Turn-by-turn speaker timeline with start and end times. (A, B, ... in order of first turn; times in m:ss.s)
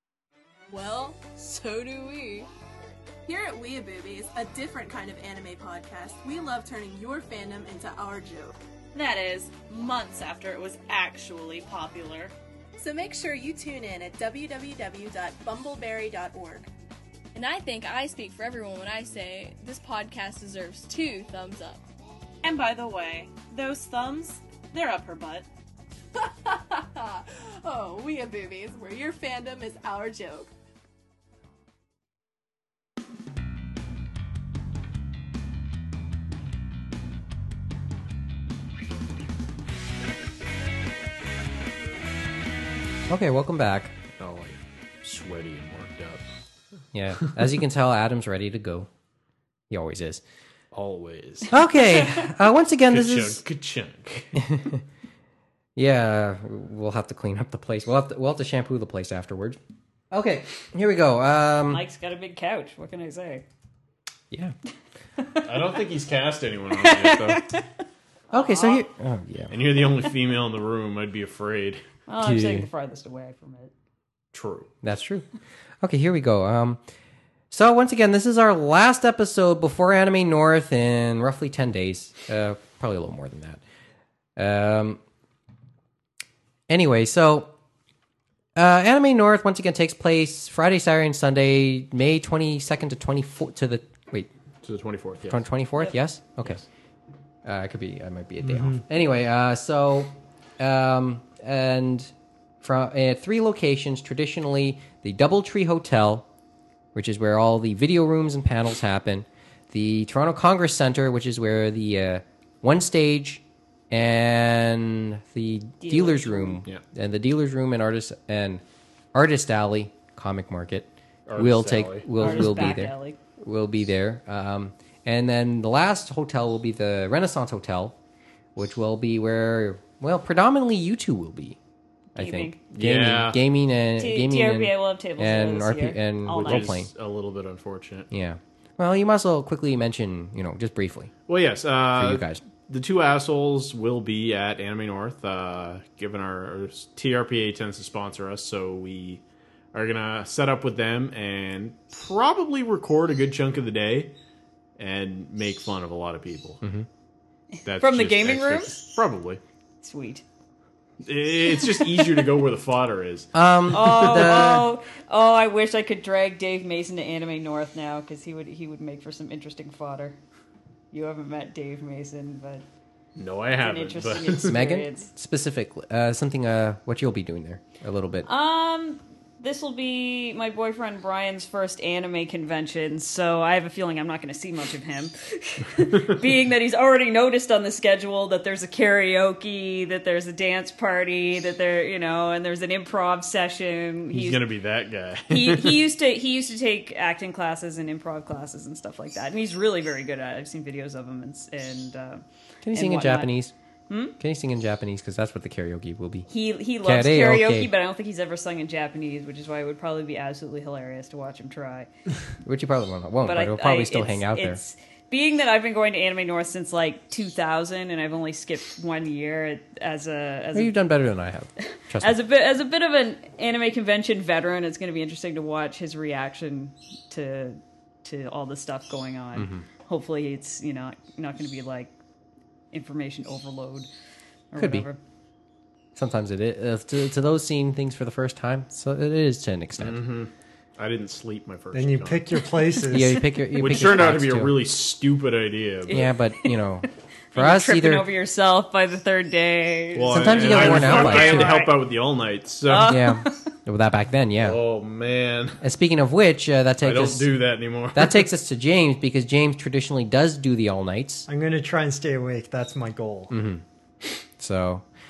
0:00.7-0:02.5 A
0:03.2-0:08.5 A
0:08.9-0:12.3 B
0:12.8-0:16.7 A
0:17.3-0:21.8 C
0:22.4-0:25.4 B
0:26.1-0:30.5 A
0:43.1-0:43.9 D
0:44.2-0:46.3 E
0:46.9-0:48.9 D
0:49.7-0:50.2 D
0:50.7-0:51.5 E
0:51.5-0:53.4 D
0:52.9-0:54.3 E
0:54.4-0:54.8 D
0:55.8-0:59.6 D
1:00.1-1:01.8 D
1:01.7-1:03.4 F
1:05.2-1:05.8 F
1:05.4-1:07.4 E
1:06.7-1:07.6 F
1:08.3-1:09.5 D
1:08.3-1:08.9 F
1:09.5-1:11.8 E
1:12.1-1:13.7 F
1:12.2-1:12.7 D
1:14.3-1:14.7 E
1:14.8-1:15.2 D
1:15.8-1:16.8 D
1:17.5-1:23.6 D
1:24.4-1:25.0 D
1:26.7-1:27.5 D
1:28.6-1:34.3 D
1:34.6-1:35.4 E
1:35.3-1:36.6 D
1:37.4-1:42.1 D
1:38.4-1:38.8 G
1:42.6-1:46.3 D
1:46.9-1:58.6 D
1:55.8-1:56.6 F
1:59.1-2:07.9 D
2:01.3-2:02.8 E
2:02.2-2:03.2 F
2:08.6-2:11.6 D
2:12.2-2:12.6 F
2:12.2-2:16.9 D
2:12.7-2:13.4 E
2:14.0-2:16.7 F
2:16.4-2:18.1 E
2:18.1-2:21.1 D
2:21.3-2:29.2 E
2:21.9-2:22.4 D
2:29.7-2:34.1 E
2:34.8-2:36.6 E
2:37.5-2:38.9 F
2:37.6-2:39.4 E
2:39.8-2:40.2 F
2:41.0-2:44.6 E
2:43.3-2:44.7 D
2:43.7-2:50.2 F
2:50.9-2:52.6 F
2:53.2-2:54.5 E
2:53.6-2:55.1 F
2:54.5-2:58.3 D
2:58.3-3:14.4 F
3:14.1-3:15.8 E
3:15.3-3:23.3 F
3:22.6-3:23.5 D
3:23.9-3:24.1 F
3:24.2-3:26.3 D
3:26.3-3:31.9 F
3:26.8-3:27.7 D
3:32.4-3:34.6 D
3:33.2-3:40.8 F
3:40.5-3:42.2 D
3:42.0-3:51.9 F
3:49.4-3:49.6 D
3:52.7-3:53.9 F
3:54.5-3:55.0 F
3:54.6-3:54.8 D
3:56.0-4:00.1 D
3:59.8-4:02.4 E
4:01.7-4:03.2 G
4:02.9-4:04.6 D
4:03.6-4:06.1 E
4:05.8-4:11.8 F
4:05.9-4:08.0 D
4:09.9-4:13.0 E
4:10.1-4:11.6 D
4:12.7-4:13.4 F
4:12.9-4:14.6 D
4:14.4-4:15.6 E
4:15.6-4:17.3 D
4:16.8-4:18.3 E
4:17.9-4:21.3 D
4:21.3-4:23.3 G
4:23.3-4:23.6 D
4:24.4-4:24.8 D